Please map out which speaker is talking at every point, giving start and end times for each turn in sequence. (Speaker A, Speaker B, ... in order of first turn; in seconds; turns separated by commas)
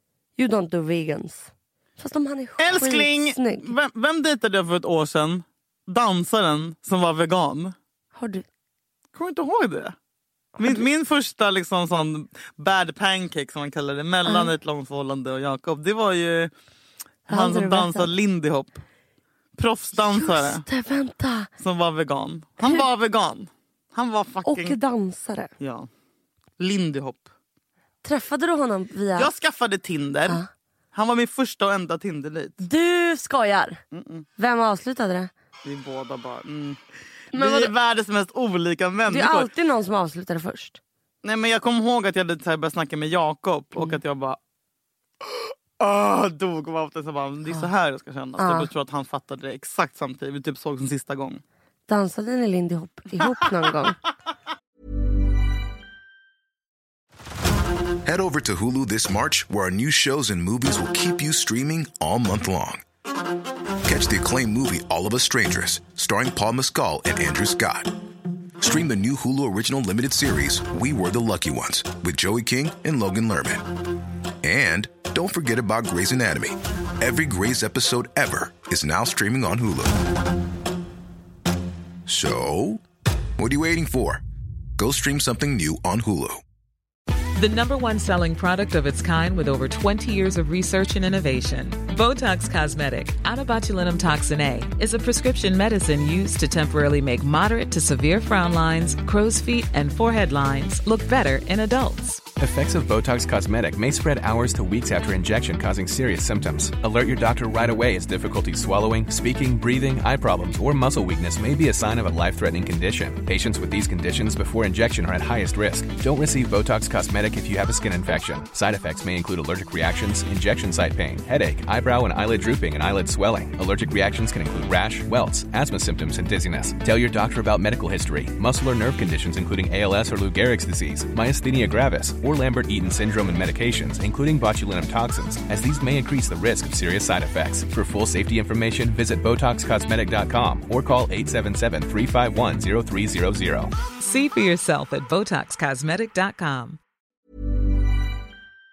Speaker A: 0.4-3.7, Speaker B: 2.6-7.8, Speaker A: 8.1-8.4, Speaker B: 9.1-9.9, Speaker B: 10.6-16.5, Speaker B: 17.3-18.8, Speaker A: 17.3-18.1, Speaker B: 19.6-20.6, Speaker A: 20.0-21.5, Speaker B: 21.6-24.8, Speaker A: 24.4-25.5, Speaker B: 25.6-25.9, Speaker B: 26.6-27.3, Speaker A: 28.0-29.3, Speaker B: 29.1-30.4, Speaker B: 30.9-32.6, Speaker A: 32.6-33.8, Speaker B: 33.9-34.3, Speaker A: 34.4-35.3, Speaker B: 35.6-36.8, Speaker B: 37.3-39.5, Speaker A: 37.3-37.7, Speaker A: 39.1-40.8, Speaker B: 41.2-44.4, Speaker B: 45.2-51.4, Speaker A: 48.4-48.7, Speaker A: 51.9-54.0, Speaker C: 58.0-62.8, Speaker C: 63.9-67.9, Speaker C: 68.6-73.7, Speaker C: 74.4-80.0, Speaker C: 82.1-82.8, Speaker C: 83.4-84.2, Speaker C: 84.8-86.4, Speaker D: 87.3-102.3, Speaker E: 102.4-143.7, Speaker D: 144.0-146.8